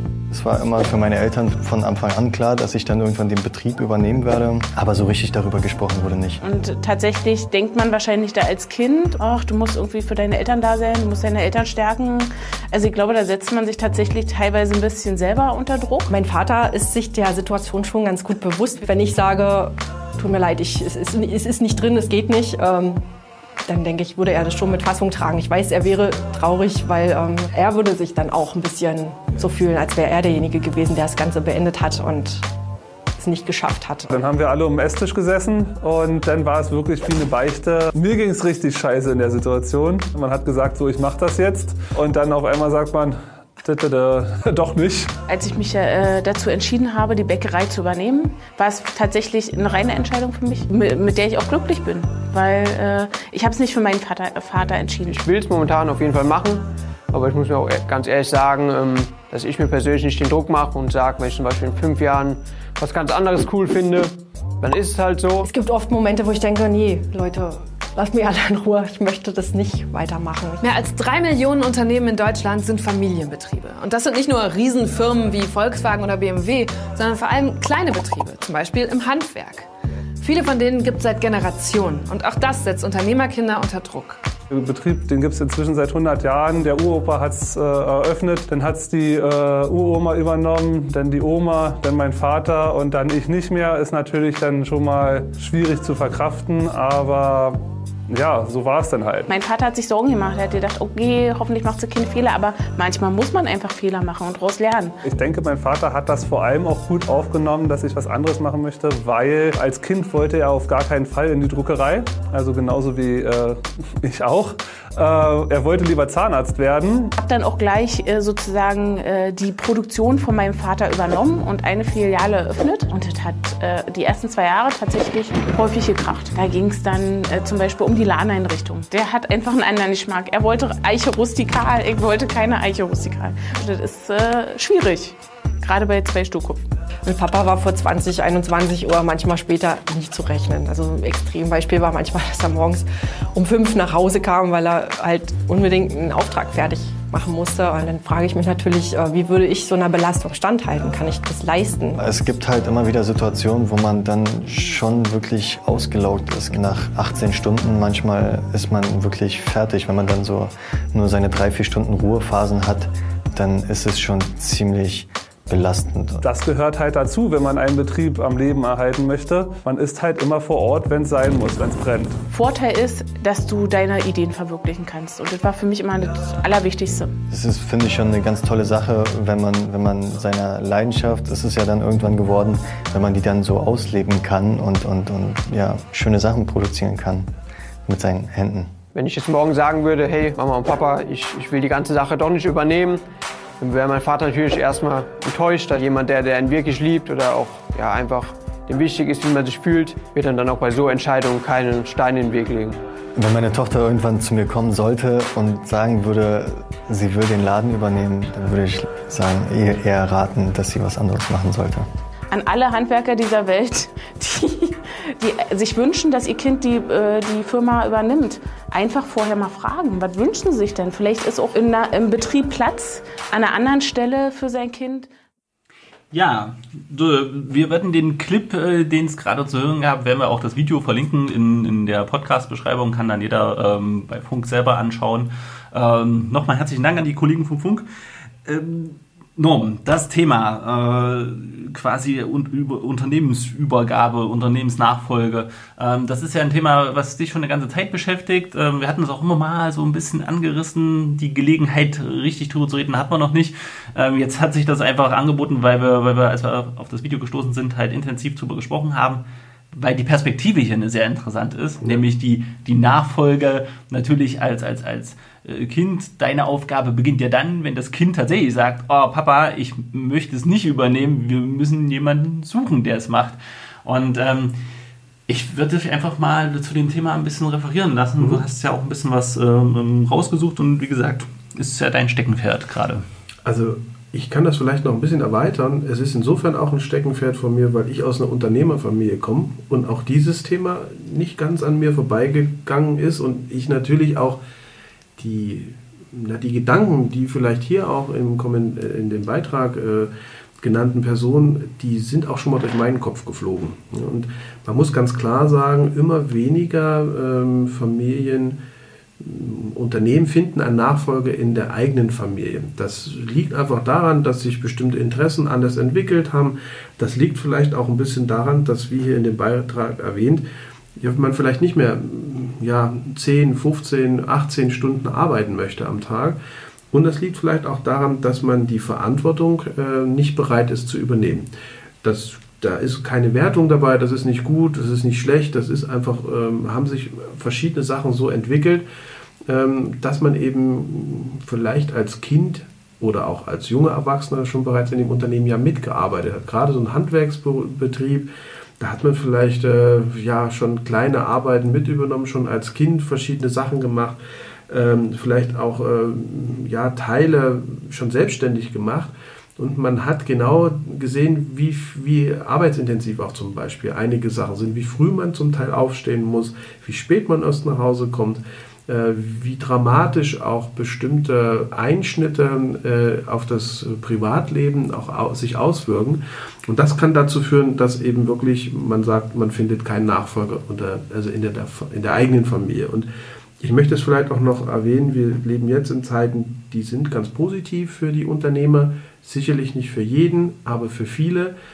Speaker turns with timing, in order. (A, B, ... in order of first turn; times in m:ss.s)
0:00.3-0:06.4 A
0:06.4-0:16.1 B
0:16.1-0:23.0 C
0:23.6-0:32.5 C
0:33.2-0:34.1 C
0:34.1-0:45.1 D
0:45.3-0:55.2 B
0:55.1-1:05.5 E
1:05.5-1:10.6 C
1:10.6-1:19.7 F
1:20.2-1:24.2 F
1:24.5-1:39.3 D
1:39.3-1:45.0 B
1:45.0-1:57.1 D
1:57.2-2:16.7 B
2:17.0-2:32.0 C
2:32.0-2:46.2 A
2:46.2-2:52.2 D
2:52.3-2:57.1 B
2:57.3-3:07.3 A
3:07.9-3:08.7 A
3:09.0-3:13.0 E
3:13.6-3:22.8 E
3:23.2-3:31.9 A
3:32.3-3:45.1 B
3:46.1-3:57.9 G
3:58.4-4:34.6 G
4:35.3-4:43.0 G
4:43.4-4:54.4 H
4:55.2-5:08.6 H
5:09.2-5:20.4 H
5:21.0-5:26.4 H
5:26.9-5:31.5 H
5:32.0-5:38.8 H
5:39.5-5:48.3 H
5:48.8-5:54.2 H
5:54.7-6:23.1 H
6:23.6-6:31.5 H